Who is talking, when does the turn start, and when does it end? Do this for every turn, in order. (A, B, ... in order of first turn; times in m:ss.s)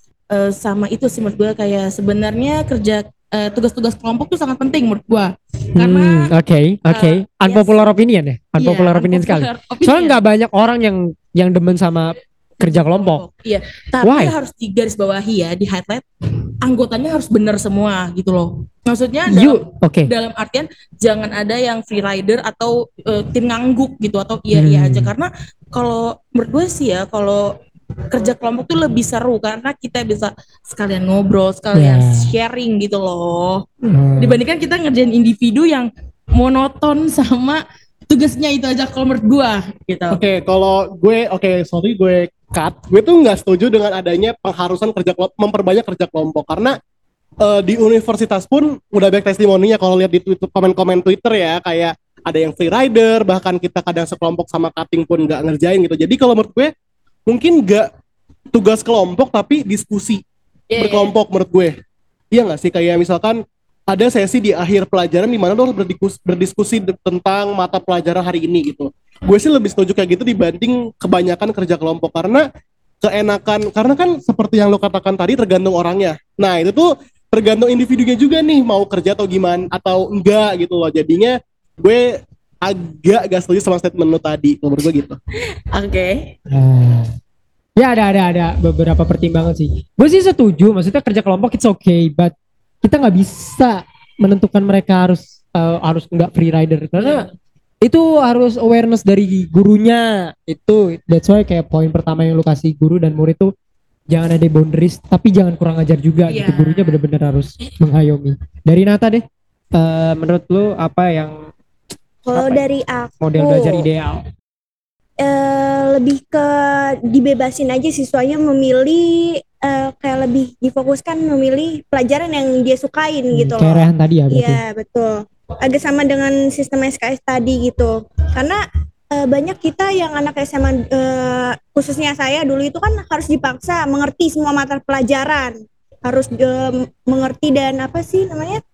0:00.3-0:06.3 A
0:05.7-0:13.2 B
0:06.9-0:07.8 A
0:08.6-0:10.2 A
0:12.6-0:16.0 A
0:14.0-0:14.3 B
0:16.6-0:27.5 A
0:19.3-0:20.1 B
0:24.5-0:25.1 B
0:28.1-0:33.6 A
0:31.7-0:32.3 B
0:33.8-0:34.4 B
0:34.2-0:40.2 A
0:40.1-0:46.8 C
0:47.4-0:56.7 C
0:57.3-0:57.9 C
0:58.5-1:00.2 C
1:00.7-1:01.1 A
1:00.8-1:01.7 C
1:02.3-1:12.4 C
1:13.0-1:25.2 C
1:25.7-1:26.3 A
1:26.5-1:27.1 B
1:27.8-1:37.2 B
1:37.0-1:37.3 A
1:37.8-1:43.5 B
1:44.1-1:49.2 B
1:46.3-1:47.0 A
1:49.7-1:51.5 B
1:52.2-1:53.9 D
1:52.3-1:52.6 B
1:53.2-1:54.2 B
1:55.2-2:08.6 D
2:03.3-2:04.6 B
2:09.1-2:18.6 D